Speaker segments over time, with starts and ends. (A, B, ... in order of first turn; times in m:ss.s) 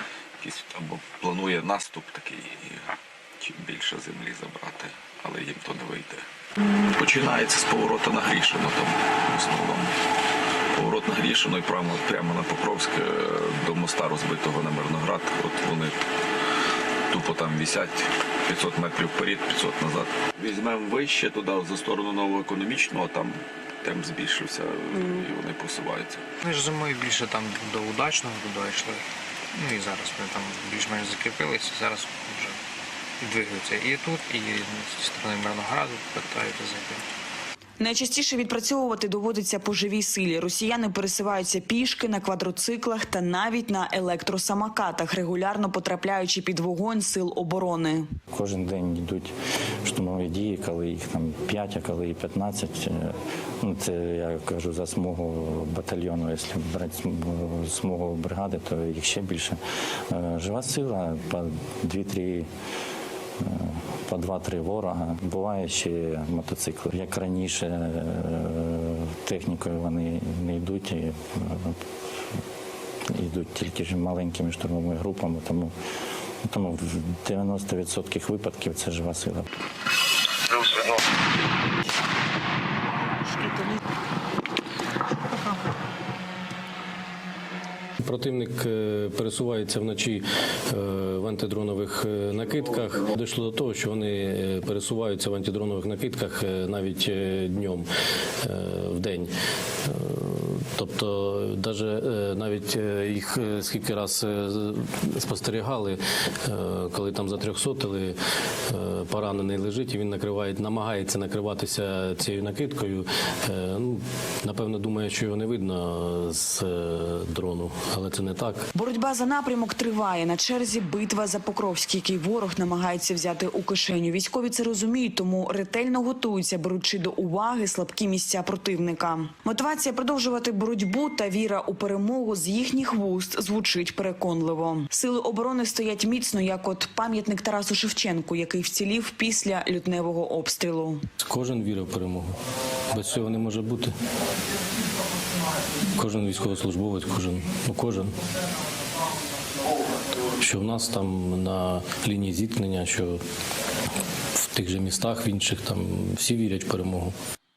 0:00.4-0:06.2 A
0:06.8-0:09.9 A
0:10.7-0:16.0 A
0:17.1-0:26.2 A
0:26.4-0:32.6 B
0:33.2-0:37.0 B
0:37.8-0:48.1 C
0:48.3-0:59.6 D
1:00.1-1:02.5 D
1:03.4-1:11.8 D
1:13.1-1:15.7 D
1:16.4-1:19.4 D
1:28.0-1:37.9 E
1:38.4-1:39.3 E
1:39.8-1:48.2 E
1:48.7-1:58.7 E
1:58.7-2:21.0 C
2:21.2-2:22.3 E
2:22.9-2:23.9 E
2:25.9-2:28.1 E
2:30.4-2:33.2 E
2:34.3-2:37.1 E